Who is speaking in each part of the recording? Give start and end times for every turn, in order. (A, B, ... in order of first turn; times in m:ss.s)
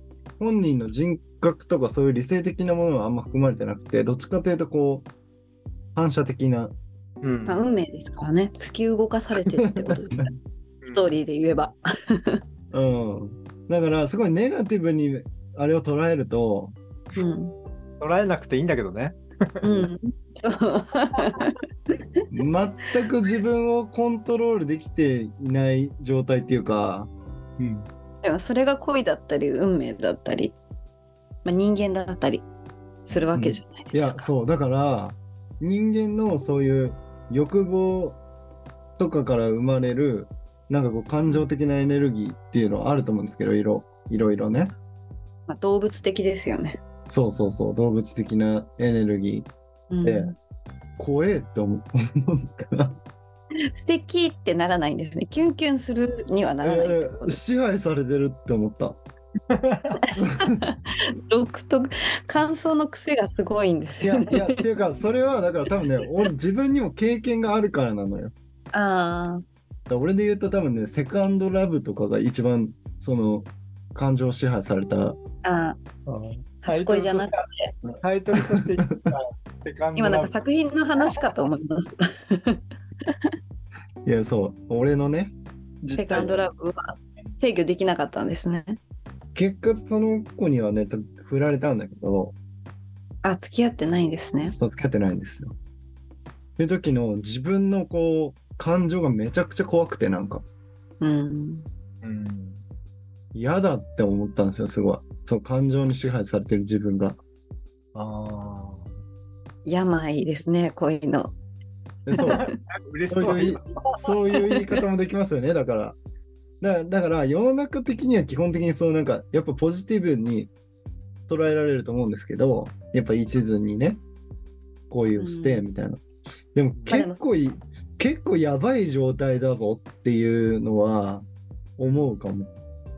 0:00.4-0:05.1 A
0:05.9-0:06.7 A
0:07.2-0:07.6 B
0:07.5-0:10.3 C
0:09.6-0:10.3 A
0:10.8-0:11.2 B
0:10.9-0:12.4 C
0:12.7-0:16.8 A
0:17.2-0:17.5 C
0:18.0-0:19.6 B
0:19.6-0:19.9 A
0:19.6-0:21.6 C
0:22.3-0:27.1 A
0:27.6-0:27.8 B
0:28.2-0:30.6 C
0:31.4-0:32.4 C
0:33.1-0:34.3 C
0:33.3-0:38.2 A
0:39.0-0:44.8 A
0:45.5-0:46.8 C
0:47.1-0:49.5 A
0:49.9-0:50.4 C
0:50.0-0:50.3 A
0:51.0-0:53.0 A
0:53.7-0:57.4 C
0:56.6-0:59.0 A
0:59.5-1:00.0 B
1:00.0-1:00.8 C
1:00.2-1:00.6 A
1:01.3-1:04.6 C
1:04.0-1:08.3 A
1:08.7-1:09.4 C
1:09.9-1:15.2 A
1:15.4-1:15.8 C
1:16.0-1:17.4 B
1:16.6-1:17.7 C
1:17.9-1:19.1 A
1:18.0-1:20.3 B
1:20.0-1:23.1 C
1:24.0-1:25.3 A
1:25.8-1:26.3 B
1:25.9-1:26.3 A
1:26.0-1:28.8 C
1:29.3-1:32.3 A
1:33.2-1:34.5 C
1:34.5-1:35.5 A
1:36.6-1:40.4 A
1:41.0-1:41.7 C
1:42.0-1:42.6 B
1:43.3-1:47.2 A
1:47.9-1:48.9 B
1:49.6-1:51.3 C
1:52.0-1:52.5 A
1:52.2-1:52.5 C
1:52.2-1:54.0 B
1:53.1-1:56.0 A
1:54.5-1:54.8 C
1:56.6-2:00.5 A
2:01.3-2:04.0 A
2:04.9-2:06.0 A
2:05.2-2:05.6 C
2:06.5-2:11.2 A
2:06.9-2:07.3 C
2:11.8-2:12.5 A